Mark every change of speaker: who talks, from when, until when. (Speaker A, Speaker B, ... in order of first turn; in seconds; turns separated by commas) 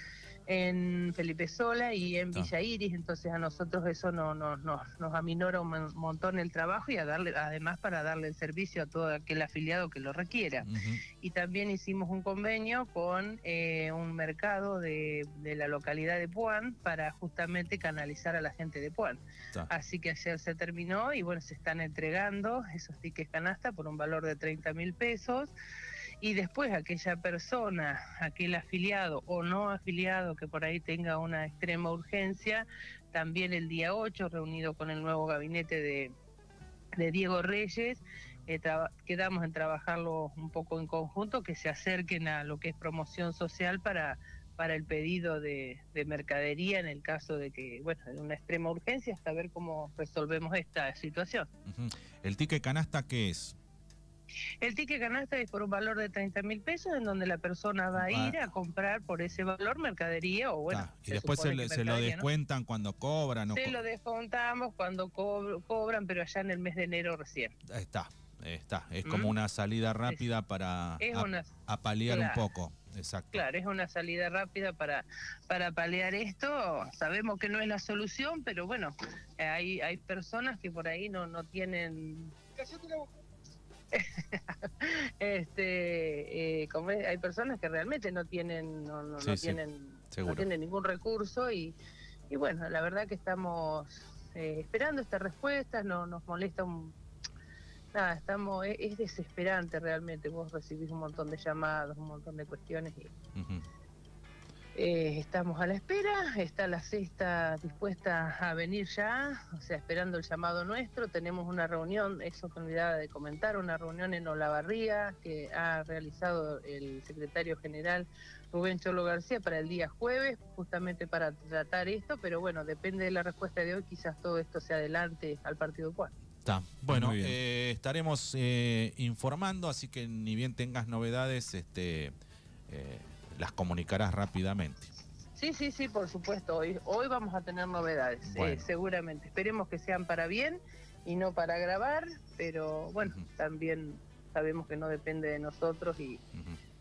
Speaker A: 0.5-10.7, Speaker B: 10.7-11.0, Speaker A: 11.2-25.5, Speaker A: 26.2-36.1, Speaker A: 37.0-51.5, Speaker B: 51.7-53.6, Speaker A: 54.6-62.3, Speaker B: 58.0-58.4, Speaker B: 60.7-63.8, Speaker A: 63.5-67.5, Speaker B: 67.7-73.5, Speaker A: 69.0-69.3, Speaker A: 71.0-72.4, Speaker A: 73.3-83.1, Speaker A: 83.9-91.8, Speaker B: 89.2-89.6, Speaker B: 90.1-90.5, Speaker A: 92.3-97.0, Speaker A: 97.9-103.1, Speaker B: 103.3-103.6, Speaker A: 104.8-126.1, Speaker B: 126.5-132.1, Speaker B: 132.7-134.9, Speaker A: 135.4-146.2, Speaker B: 138.3-138.7